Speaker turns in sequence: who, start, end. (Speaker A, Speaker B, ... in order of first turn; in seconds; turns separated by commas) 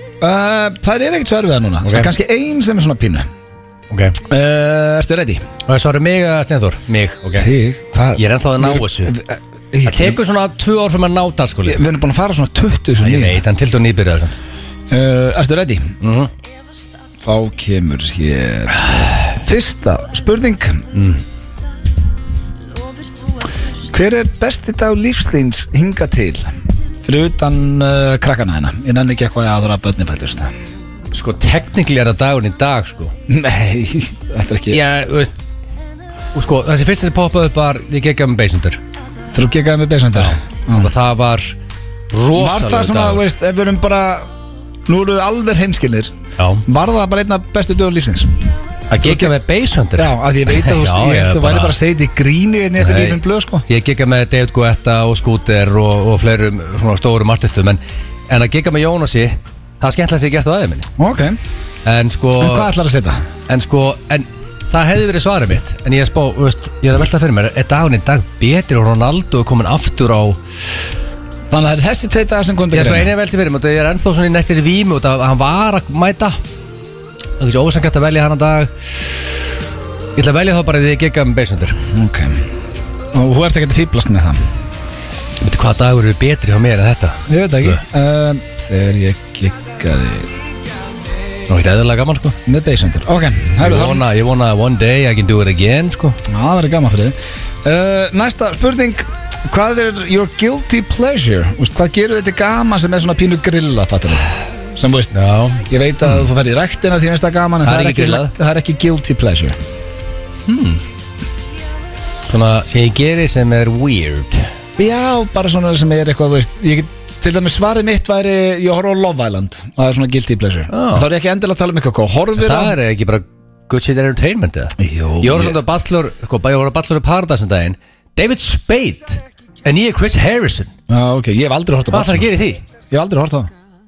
Speaker A: 0.2-3.3, Speaker B: 1.8-2.1, Speaker B: 3.9-4.2, Speaker A: 4.3-5.5, Speaker B: 5.7-7.5, Speaker A: 7.3-10.2, Speaker B: 8.1-9.1, Speaker B: 9.8-11.8, Speaker A: 11.6-13.4, Speaker B: 13.0-14.3, Speaker A: 14.9-15.9, Speaker B: 16.0-16.3, Speaker A: 17.2-20.9, Speaker B: 20.9-21.2, Speaker A: 23.9-26.5, Speaker A: 27.0-30.5, Speaker B: 31.1-33.1, Speaker A: 33.3-34.8, Speaker B: 34.7-35.3, Speaker B: 36.3-38.8, Speaker A: 39.3-40.9, Speaker B: 40.1-41.5, Speaker B: 42.1-43.2, Speaker A: 42.3-44.3, Speaker A: 44.9-48.3, Speaker B: 46.4-46.6, Speaker B: 48.9-51.8, Speaker A: 49.0-49.3, Speaker A: 50.0-53.6, Speaker B: 52.8-60.9, Speaker A: 61.0-61.4, Speaker B: 61.8-62.7, Speaker A: 62.4-63.2, Speaker B: 63.5-70.4, Speaker A: 71.5-73.1, Speaker B: 72.7-76.4, Speaker B: 77.4-79.2, Speaker B: 80.2-81.8, Speaker A: 81.9-82.5, Speaker A: 83.1-84.4, Speaker B: 85.4-87.8, Speaker A: 87.3-90.3, Speaker B: 91.5-92.4, Speaker A: 92.5-94.0, Speaker B: 93.6-96.2, Speaker A: 96.3-105.1, Speaker B: 105.1-106.2, Speaker A: 105.7-109.5, Speaker B: 107.6-108.3, Speaker B: 110.5-110.8, Speaker B: 112.3-114.5, Speaker A: 114.8-122.8, Speaker B: 120.7-121.1, Speaker B: 122.3-130.7, Speaker A: 124.8-125.6, Speaker A: 130.9-132.3, Speaker B: 131.9-132.6, Speaker A: 132.9-133.5